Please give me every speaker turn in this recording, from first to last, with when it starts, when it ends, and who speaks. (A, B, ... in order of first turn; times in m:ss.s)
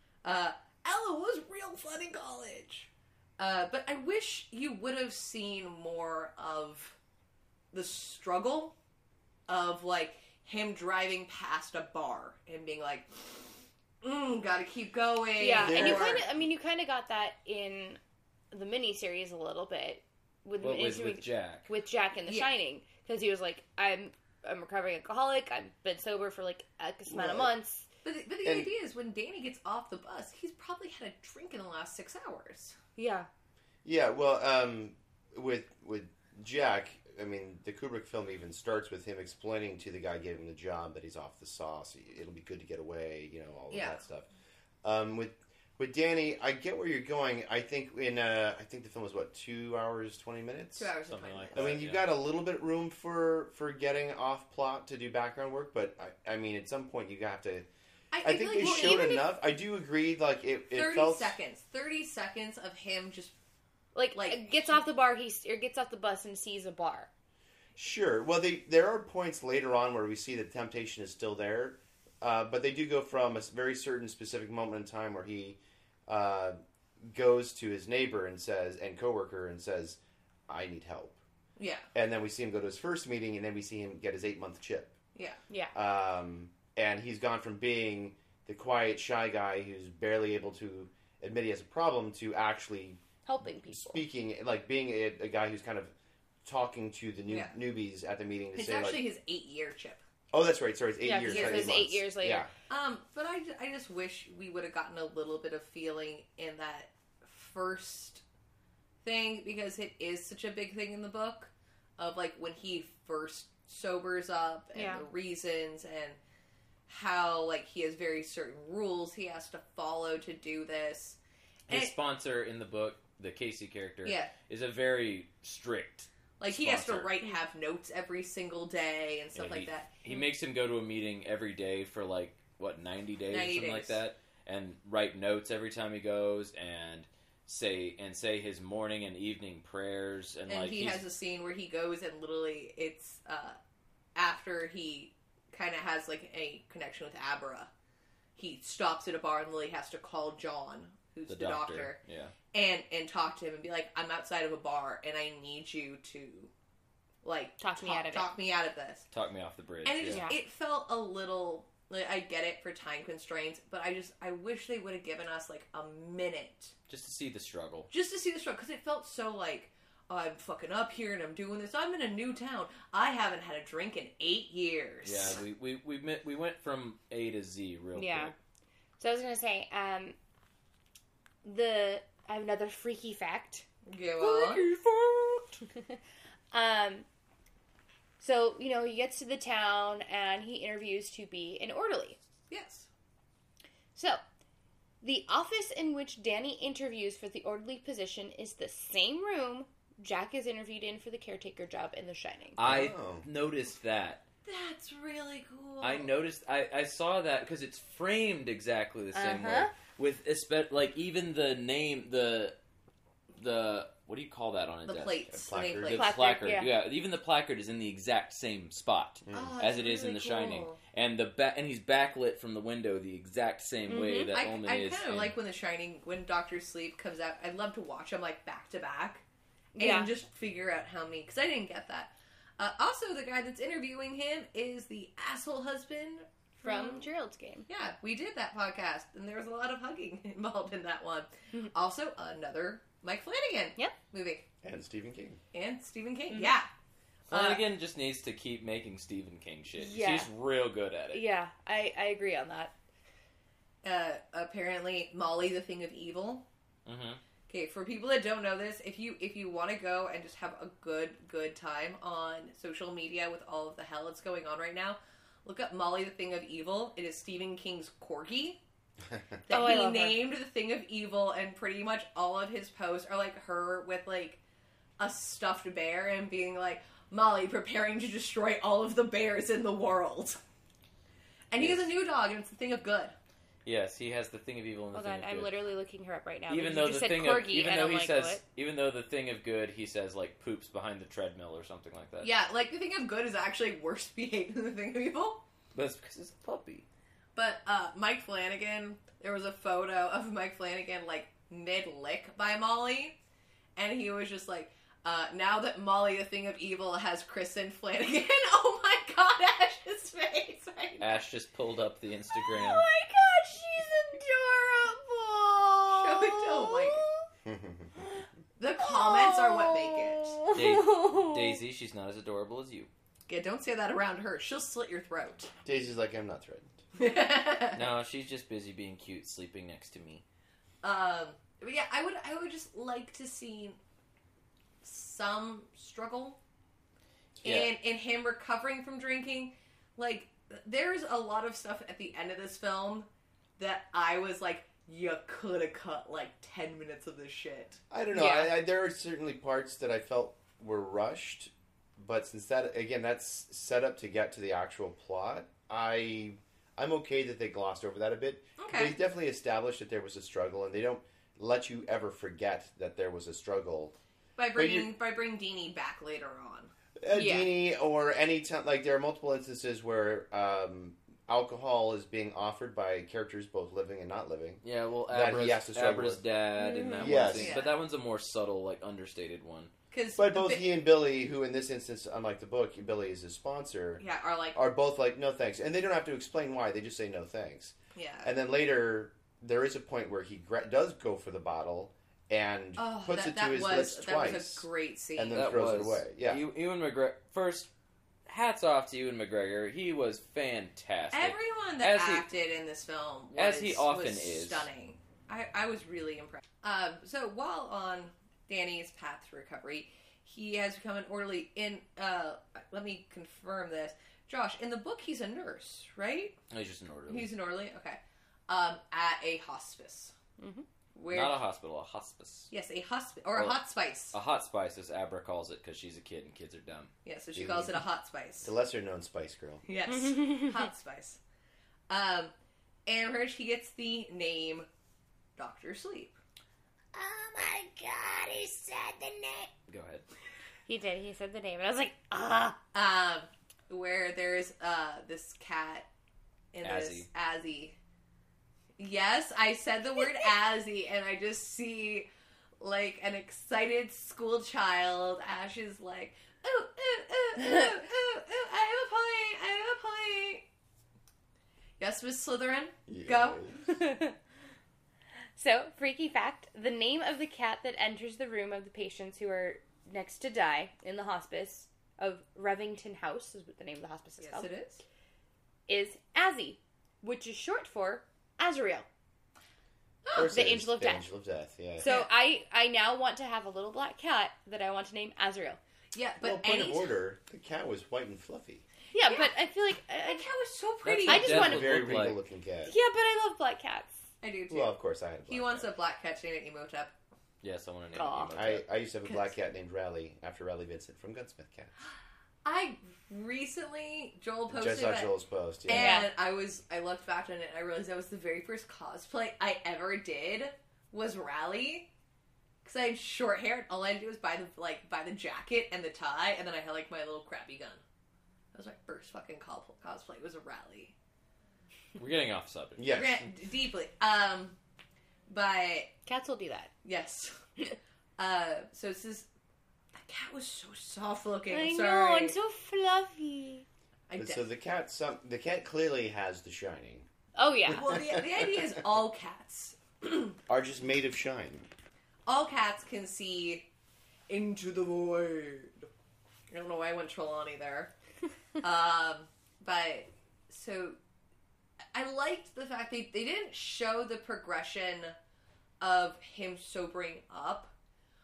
0:00.2-0:07.0 A
0:07.7-0:08.7 A
0:09.5-0:16.2 A
0:15.4-0:18.0 B
0:15.6-0:16.3 C
0:18.5-0:27.9 B
0:20.6-0:21.7 D
0:27.1-0:27.5 C
0:28.0-0:32.8 A
0:28.4-0:28.7 C
0:33.0-0:33.3 B
0:33.8-0:44.3 C
0:43.7-0:44.0 A
0:44.8-0:50.9 C
0:50.8-0:51.8 A
0:51.0-0:52.0 D
0:51.5-0:57.6 C
0:58.1-0:59.2 A
0:58.2-1:01.3 C
0:58.6-0:58.9 B
1:00.7-1:03.4 A
1:03.9-1:07.1 B
1:04.1-1:04.8 A
1:07.8-1:21.2 C
1:21.6-1:21.9 A
1:21.9-1:24.9 C
1:25.7-1:33.0 C
1:33.2-1:34.0 B
1:33.6-1:35.9 C
1:36.4-1:39.0 C
1:37.3-1:37.5 A
1:38.5-1:40.0 A
1:40.3-1:42.5 C
1:41.0-1:42.5 B
1:41.2-1:41.8 A
1:42.7-1:48.2 A
1:49.0-1:56.2 A
1:54.7-1:55.0 B
1:56.9-2:01.9 A
2:01.7-2:07.2 D
2:04.0-2:04.3 A
2:06.4-2:09.9 A
2:09.3-2:21.0 D
2:13.3-2:14.0 A
2:20.5-2:23.6 A
2:24.1-2:27.7 A
2:28.4-2:32.0 A
2:31.3-2:32.3 D
2:32.5-2:36.5 A
2:37.2-2:39.1 A
2:37.6-2:38.3 B
2:39.1-2:40.3 D
2:39.8-2:46.7 A
2:40.1-2:40.4 B
2:46.9-2:47.9 D
2:47.9-2:55.4 A
2:55.0-2:58.3 D
2:58.0-2:58.3 B
2:59.0-3:00.2 B
3:01.4-3:03.6 B
3:03.9-3:04.6 A
3:04.2-3:05.6 B
3:06.5-3:07.0 B
3:08.2-3:12.2 B
3:12.5-3:12.9 A
3:13.9-3:14.2 B
3:15.0-3:22.6 B
3:22.6-3:24.2 D
3:22.6-3:23.2 C
3:24.4-3:26.1 A
3:25.8-3:32.5 D
3:29.1-3:29.7 B
3:33.4-3:45.3 D
3:34.8-3:36.1 A
3:35.3-3:36.0 C
3:35.9-3:36.7 B
3:39.2-3:39.5 C
3:39.3-3:40.8 A
3:43.9-3:44.3 B
3:44.3-3:49.2 A
3:49.8-3:50.1 B
3:49.8-3:57.1 A
3:56.6-3:57.7 B
3:57.7-4:04.4 A
4:04.6-4:05.4 C
4:05.5-4:06.7 A
4:07.3-4:11.2 D
4:07.3-4:07.6 A
4:09.7-4:10.3 B
4:11.1-4:12.7 B
4:13.8-4:16.4 A
4:16.8-4:17.2 D
4:17.5-4:28.6 A
4:29.5-4:34.4 A
4:29.5-4:30.2 B
4:35.0-4:40.4 A
4:41.5-4:43.2 A
4:41.6-4:41.9 D
4:43.6-4:45.5 D
4:44.9-4:48.4 B
4:46.5-4:52.3 D
4:52.2-4:55.4 A
4:55.7-4:56.8 D
4:57.3-5:03.2 A
5:03.8-5:11.2 A
5:11.0-5:12.8 D
5:12.3-5:17.2 B
5:15.9-5:17.0 A
5:17.4-5:17.9 C
5:18.6-5:20.4 A
5:18.8-5:21.6 B
5:20.5-5:22.9 D
5:23.3-5:25.5 A
5:25.6-5:26.7 C
5:27.0-5:27.8 A
5:27.7-5:30.2 D
5:30.8-5:33.8 A
5:34.8-5:36.4 A
5:37.4-5:37.7 D
5:37.4-5:47.8 A
5:47.9-6:03.9 C
5:48.1-5:48.5 B
5:58.6-5:58.9 A
6:04.4-6:06.7 A
6:04.5-6:04.9 C
6:07.0-6:16.2 C
6:07.1-6:07.4 B
6:14.6-6:19.7 D
6:16.6-6:17.3 B
6:17.0-6:17.6 C
6:17.4-6:17.8 A
6:19.9-6:20.6 A
6:20.2-6:24.0 C
6:24.0-6:24.6 A
6:24.5-6:36.4 C
6:27.9-6:28.3 A
6:32.8-6:35.4 A
6:35.3-6:37.7 D
6:38.3-6:42.3 D
6:41.1-6:56.4 A
6:43.4-6:44.7 D
6:56.5-6:57.3 D
6:57.1-7:00.1 A
7:00.4-7:00.6 B
7:00.9-7:01.4 A
7:01.1-7:02.5 D
7:02.5-7:04.1 A
7:04.1-7:06.9 D
7:07.0-7:08.5 A
7:07.4-7:07.8 C
7:08.4-7:09.6 C
7:09.6-7:11.2 A
7:10.1-7:10.5 B
7:11.9-7:12.3 A
7:12.8-7:14.7 A
7:15.4-7:16.1 A
7:16.9-7:19.4 B
7:19.7-7:20.0 D
7:20.7-7:22.6 B
7:22.7-7:25.9 A
7:26.5-7:27.8 A
7:26.6-7:27.1 D
7:28.8-7:32.1 A
7:32.6-7:40.4 A
7:37.4-7:37.6 B
7:41.8-7:43.4 A
7:42.9-7:43.8 C
7:43.7-7:44.2 B
7:45.4-7:54.5 B
7:54.2-7:54.8 A
7:55.7-7:58.8 B
8:00.0-8:00.3 A
8:00.1-8:01.9 C
8:00.3-8:01.1 B
8:01.8-8:05.6 B
8:01.8-8:02.1 A
8:05.9-8:06.9 A
8:06.2-8:08.6 C
8:08.9-8:10.2 B
8:09.0-8:09.3 A
8:10.0-8:11.3 A
8:10.8-8:12.2 D
8:11.0-8:11.8 B
8:11.1-8:12.7 C
8:12.6-8:14.0 B
8:14.2-8:14.7 A
8:14.5-8:15.7 C
8:15.3-8:16.9 A
8:17.4-8:18.6 D
8:17.9-8:18.3 B
8:18.3-8:21.7 C
8:19.0-8:19.3 A
8:22.4-8:25.1 A
8:24.5-8:26.0 C
8:25.7-8:31.9 A
8:25.7-8:26.1 B
8:32.6-8:37.8 A
8:38.5-8:40.9 A
8:42.0-8:43.1 D
8:42.8-8:43.2 C
8:42.9-8:44.6 A
8:45.3-8:45.9 A
8:46.0-8:46.7 B
8:46.8-8:47.4 A
8:48.2-8:49.3 A
8:50.0-8:52.3 A
8:51.5-8:53.6 B
8:54.1-8:54.4 A
8:54.2-8:57.1 C
8:57.4-8:58.0 B
8:57.7-9:00.4 A
8:57.7-8:58.7 C
9:00.5-9:01.7 C
9:02.2-9:03.7 A
9:04.3-9:05.9 A
9:06.5-9:07.9 A
9:08.6-9:11.0 A
9:11.9-9:15.2 A
9:15.8-9:17.7 A